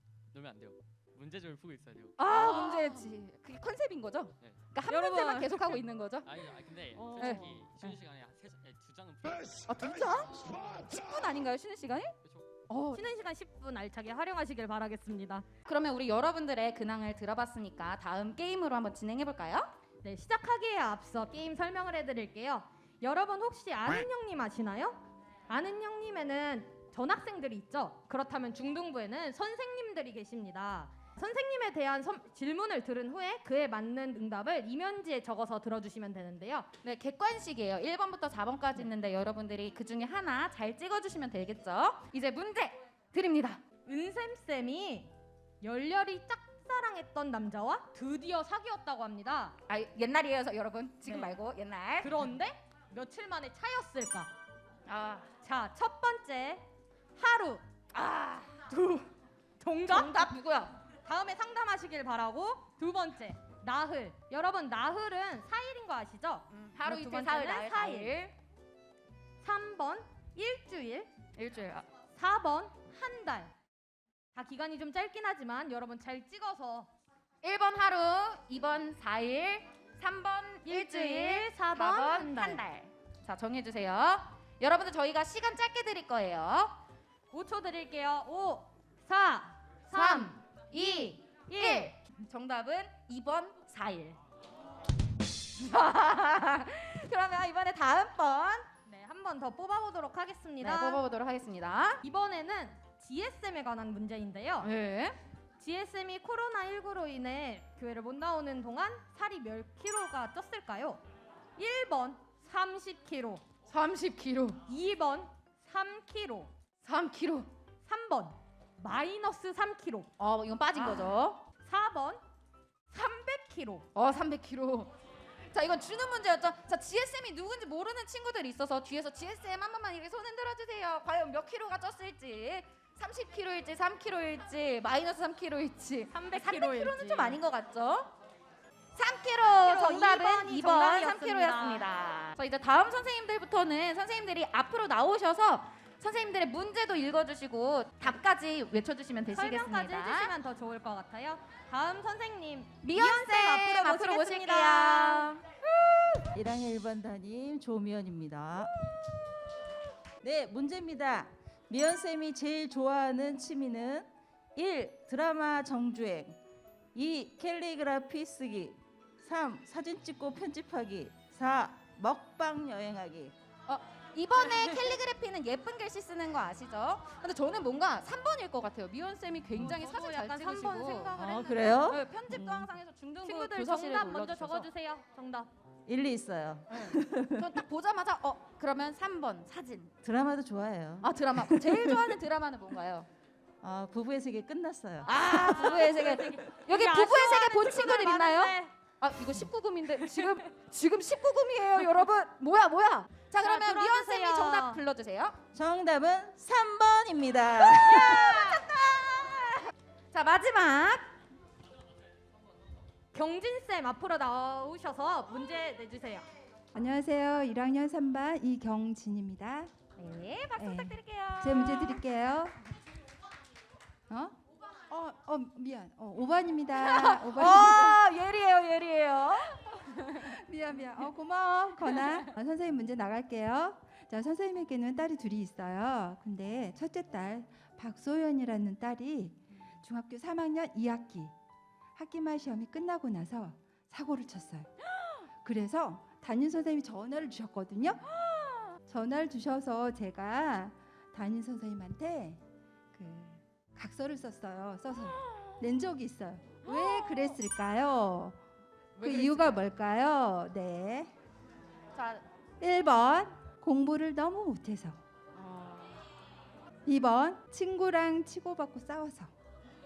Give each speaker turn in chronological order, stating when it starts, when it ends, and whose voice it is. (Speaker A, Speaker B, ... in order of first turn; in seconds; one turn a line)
Speaker A: 0.3-2.2
Speaker B: 2.2-6.3
Speaker C: 2.3-2.9
Speaker C: 4.9-5.8
Speaker A: 6.2-9.7
Speaker B: 7.2-8.0
Speaker B: 9.7-12.2
Speaker B: 12.7-13.0
Speaker C: 12.9-15.5
Speaker B: 15.7-19.7
Speaker C: 20.0-36.7
Speaker B: 36.8-43.6
Speaker C: 43.9-49.6
Speaker B: 49.7-52.2
Speaker C: 51.1-51.3
Speaker C: 52.0-54.3
Speaker B: 54.9-55.3
Speaker C: 55.4-57.6
Speaker B: 57.9-58.6
Speaker C: 58.7-59.1
Speaker C: 59.6-60.4
Speaker B: 59.9-60.8
Speaker C: 61.0-68.2
Speaker B: 66.5-68.3
Speaker C: 69.4-71.1
Speaker B: 71.4-71.9
Speaker C: 72.2-73.5
Speaker C: 74.3-76.9
Speaker B: 77.4-86.8
Speaker C: 80.7-82.6
Speaker C: 87.3-90.4
Speaker B: 89.9-94.2
Speaker C: 91.5-92.0
Speaker B: 95.6-98.7
Speaker C: 98.8-101.0
Speaker B: 100.6-102.0
Speaker C: 102.0-104.7
Speaker B: 104.6-105.2
Speaker C: 105.6-111.0
Speaker C: 111.6-113.4
Speaker B: 113.7-114.6
Speaker C: 114.7-116.5
Speaker B: 116.8-117.5
Speaker C: 117.8-120.1
Speaker B: 120.2-121.4
Speaker C: 120.8-121.1
Speaker C: 121.6-122.2
Speaker C: 122.9-123.9
Speaker B: 124.0-124.9
Speaker B: 125.5-138.1
Speaker C: 136.1-137.4
Speaker B: 139.0-150.3
Speaker C: 139.6-141.9
Speaker C: 149.3-155.4
Speaker B: 152.8-155.4
Speaker D: 155.9-158.7
Speaker D: 160.2-166.4
Speaker D: 166.9-173.3
Speaker B: 173.7-184.7
Speaker C: 179.6-181.8
Speaker D: 181.1-182.7
Speaker C: 183.2-185.5
Speaker D: 185.9-187.5
Speaker B: 186.7-189.9
Speaker D: 190.0-192.2
Speaker B: 191.0-193.1
Speaker D: 193.6-196.4
Speaker B: 195.1-205.4
Speaker C: 195.3-198.7
Speaker C: 203.4-204.8
Speaker D: 205.5-208.3
Speaker C: 207.8-208.7
Speaker B: 208.0-211.1
Speaker C: 213.1-216.3
Speaker E: 216.7-219.7
Speaker B: 220.0-222.0
Speaker E: 220.6-222.5
Speaker E: 224.1-224.4
Speaker E: 224.9-228.0
Speaker B: 226.8-230.4
Speaker E: 230.2-241.3
Speaker B: 231.9-232.2
Speaker E: 242.0-244.7
Speaker B: 244.9-245.2
Speaker E: 245.4-248.1
Speaker B: 248.1-248.8
Speaker E: 248.9-252.4
Speaker E: 252.9-258.4
Speaker B: 255.1-255.7
Speaker B: 256.6-257.4
Speaker B: 259.0-259.6
Speaker E: 259.0-261.1
Speaker B: 261.9-262.2
Speaker E: 262.6-265.0
Speaker B: 265.4-265.9
Speaker E: 266.9-269.3